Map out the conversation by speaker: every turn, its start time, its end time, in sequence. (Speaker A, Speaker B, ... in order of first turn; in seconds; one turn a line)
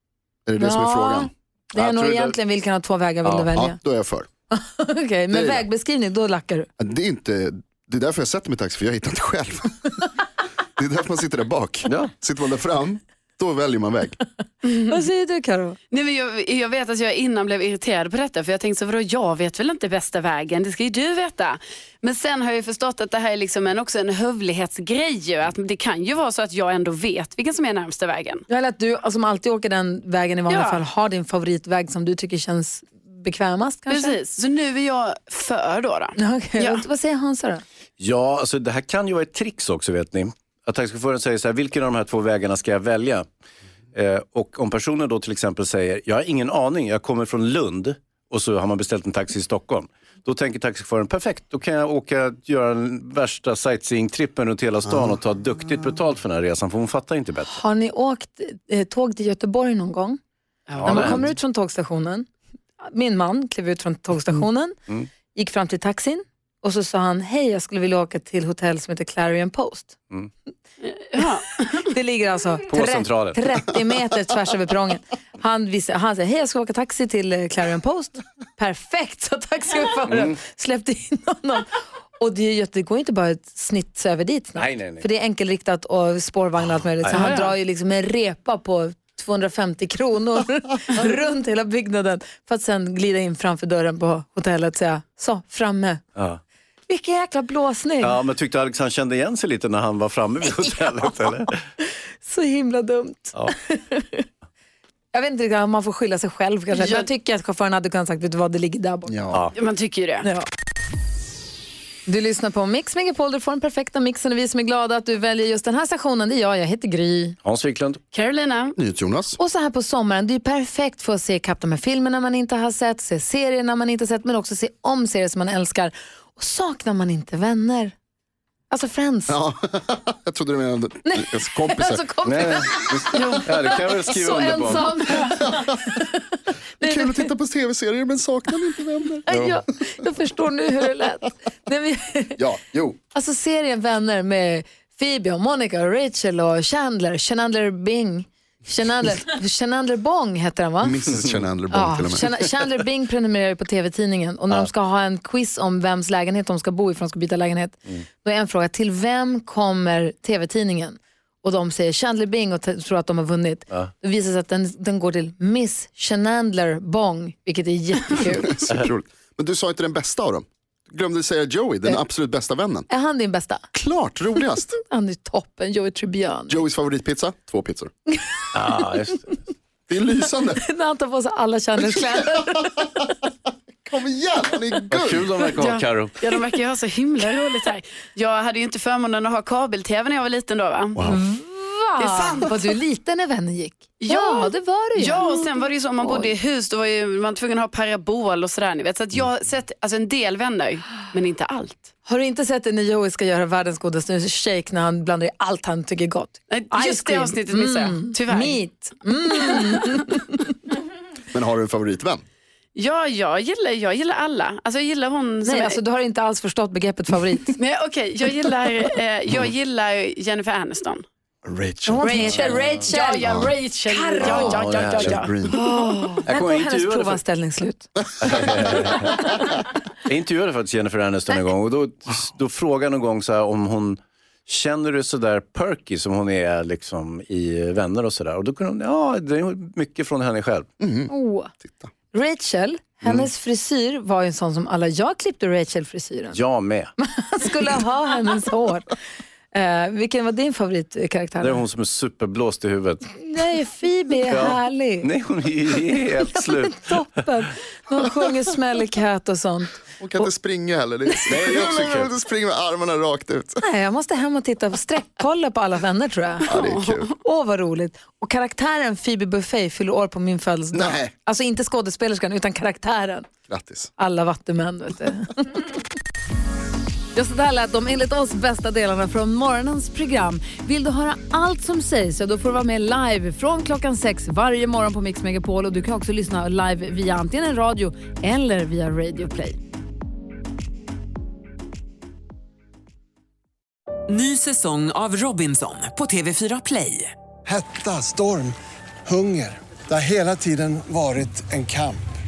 Speaker A: 0.5-1.3
Speaker B: 0.6-3.8
Speaker C: 1.8-2.4
Speaker A: 3.5-4.3
Speaker B: 4.5-6.7
Speaker A: 5.3-5.7
Speaker A: 6.8-10.0
Speaker A: 10.8-14.2
Speaker C: 11.9-12.1
Speaker D: 14.6-15.0
Speaker B: 14.9-15.8
Speaker D: 15.9-28.4
Speaker B: 28.5-34.1
Speaker D: 30.5-30.8
Speaker D: 33.9-36.8
Speaker B: 36.2-37.6
Speaker C: 38.0-43.3
Speaker C: 43.9-57.5
Speaker B: 57.5-60.2
Speaker D: 60.7-61.2
Speaker C: 60.8-61.2
Speaker B: 60.9-62.3
Speaker B: 62.8-64.8
Speaker B: 65.3-70.0
Speaker D: 70.8-71.7
Speaker B: 71.2-96.0
Speaker C: 72.7-73.4
Speaker C: 80.1-80.4
Speaker C: 84.6-85.1
Speaker D: 87.1-87.5
Speaker B: 96.9-98.2
Speaker C: 98.0-101.6
Speaker B: 102.2-104.3
Speaker B: 105.1-109.2
Speaker D: 106.7-107.1
Speaker A: 109.1-109.5
Speaker D: 109.5-110.3
Speaker B: 112.1-117.4
Speaker C: 117.5-118.0
Speaker D: 118.1-118.8
Speaker A: 118.8-119.4
Speaker B: 119.4-127.9
Speaker B: 128.7-129.4
Speaker A: 129.3-133.2
Speaker B: 131.1-137.3
Speaker C: 132.2-135.1
Speaker A: 136.8-139.6
Speaker B: 139.3-142.4
Speaker A: 142.4-143.0
Speaker B: 143.1-151.2
Speaker A: 150.8-152.3
Speaker B: 151.7-168.6
Speaker A: 168.4-172.9
Speaker B: 172.9-173.7
Speaker A: 173.7-174.8
Speaker B: 174.8-176.6
Speaker A: 176.5-177.9
Speaker B: 178.2-178.8
Speaker C: 178.5-179.4
Speaker A: 179.9-180.6
Speaker B: 180.6-182.9
Speaker A: 183.8-185.3
Speaker C: 184.9-186.2
Speaker D: 185.6-191.0
Speaker A: 191.0-191.2
Speaker B: 191.1-195.3
Speaker D: 192.0-192.5
Speaker D: 194.0-201.9
Speaker B: 196.0-196.3
Speaker B: 202.1-210.5
Speaker D: 206.5-208.6
Speaker D: 209.3-210.0
Speaker A: 211.3-212.2
Speaker D: 212.8-215.8
Speaker B: 215.4-217.6
Speaker D: 217.6-221.0
Speaker A: 221.4-223.5
Speaker B: 221.9-223.3
Speaker D: 222.8-225.3
Speaker B: 223.8-224.6
Speaker C: 224.4-225.2
Speaker A: 225.0-225.7
Speaker B: 225.5-227.9
Speaker C: 226.2-227.2
Speaker C: 228.2-229.3
Speaker B: 228.9-229.2
Speaker C: 230.0-240.7
Speaker A: 240.8-241.1
Speaker B: 241.1-241.5
Speaker B: 242.1-246.4
Speaker C: 246.3-246.9
Speaker B: 247.0-248.9
Speaker B: 249.5-251.6
Speaker C: 251.4-253.1
Speaker B: 253.1-255.1
Speaker C: 254.2-256.9
Speaker B: 256.3-260.3
Speaker A: 260.0-263.6
Speaker B: 261.1-261.6
Speaker C: 261.3-262.1
Speaker B: 263.6-266.6
Speaker A: 266.5-267.1
Speaker D: 266.5-267.1
Speaker B: 267.2-273.3
Speaker A: 270.7-271.1
Speaker A: 273.5-273.9
Speaker B: 274.0-275.7
Speaker B: 277.1-289.6
Speaker E: 294.1-297.1
Speaker F: 297.4-302.0